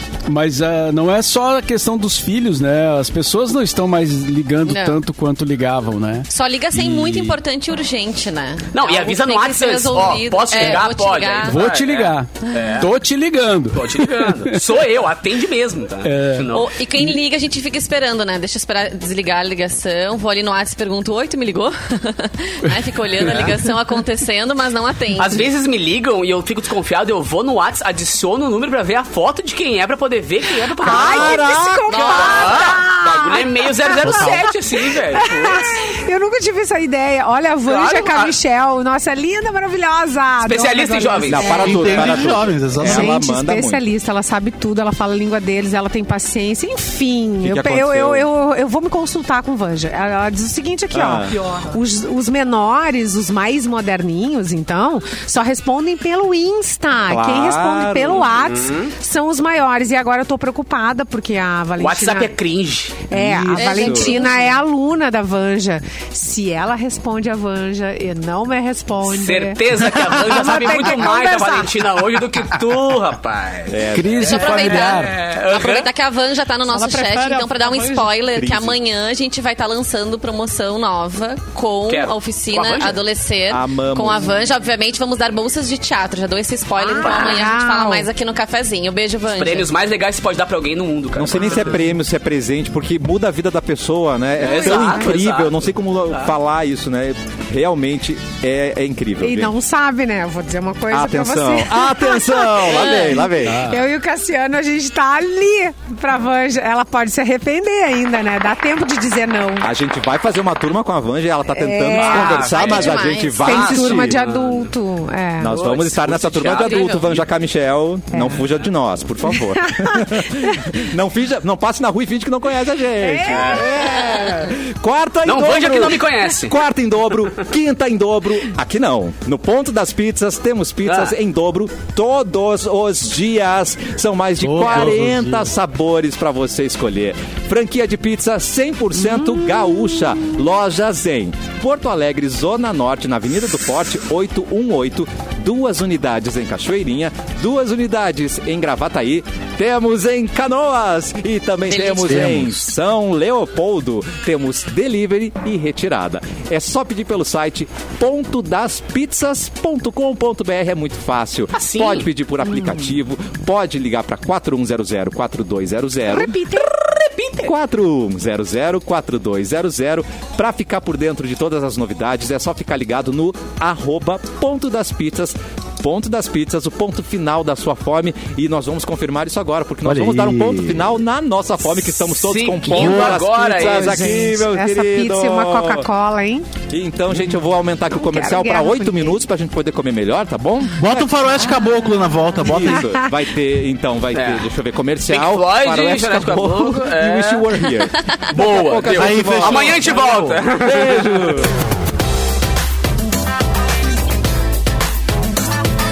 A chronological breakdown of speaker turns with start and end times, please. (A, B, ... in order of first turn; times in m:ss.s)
0:00.3-0:07.4 A
0:04.6-0:05.0 B
0:06.3-0:11.6 B
0:08.7-0:12.9 C
0:11.4-0:14.6 A
0:13.7-0:16.7 C
0:16.0-0:17.2 A
0:16.5-0:25.4 B
0:23.2-0:23.5 C
0:25.2-0:35.8 C
0:30.8-1:02.3 D
0:30.9-0:31.9 E
0:31.9-0:32.7 B
0:34.0-0:34.5 F
0:37.6-0:38.3 C
0:40.4-0:41.9 C
0:41.3-0:43.8 E
0:41.4-0:43.2 F
0:47.4-0:48.2 E
0:50.9-0:51.3 E
0:57.0-0:58.4 E
0:58.4-0:58.9 C
1:01.8-1:03.1 C
1:03.1-1:11.7 D
1:03.1-1:04.2 E
1:03.6-1:04.6 B
1:09.0-1:15.9 C
1:13.7-1:14.6 E
1:13.9-1:15.1 A
1:14.2-1:29.7 B
1:16.7-1:18.2 D
1:18.3-1:18.8 E
1:21.9-1:23.0 C
1:23.5-1:24.5 E
1:26.8-1:28.1 D
1:27.0-1:27.4 C
1:29.3-1:31.9 C
1:31.2-1:39.5 E
1:31.4-1:31.7 D
1:34.4-1:36.3 C
1:34.4-1:35.1 D
1:39.2-1:49.7 D
1:40.9-1:43.7 E
1:42.7-1:43.2 B
1:43.5-1:43.8 A
1:49.6-1:54.2 E
1:51.5-1:52.9 D
1:51.9-1:54.7 C
1:52.5-1:53.8 B
1:53.4-1:55.6 D
1:55.4-2:46.4 E
1:55.5-1:57.2 C
1:56.6-1:57.0 B
1:58.1-1:58.4 D
1:59.3-2:00.5 D
2:03.0-2:04.5 D
2:03.3-2:03.7 C
2:05.2-2:06.6 C
2:10.8-2:11.1 C
2:14.4-2:15.5 F
2:31.7-2:32.5 B
2:41.5-2:42.1 C
2:42.5-2:42.8 D
2:46.1-2:46.7 D
2:46.6-2:47.5 C
2:47.4-3:05.9 E
2:59.8-3:00.8 F
3:02.2-3:04.1 C
3:02.7-3:03.2 F
3:03.6-3:06.5 D
3:06.7-3:11.1 E
3:07.9-3:09.2 D
3:10.8-3:13.0 F
3:12.4-3:21.5 E
3:14.1-3:14.4 C
3:15.1-3:17.6 C
3:18.3-3:21.4 C
3:18.9-3:20.4 F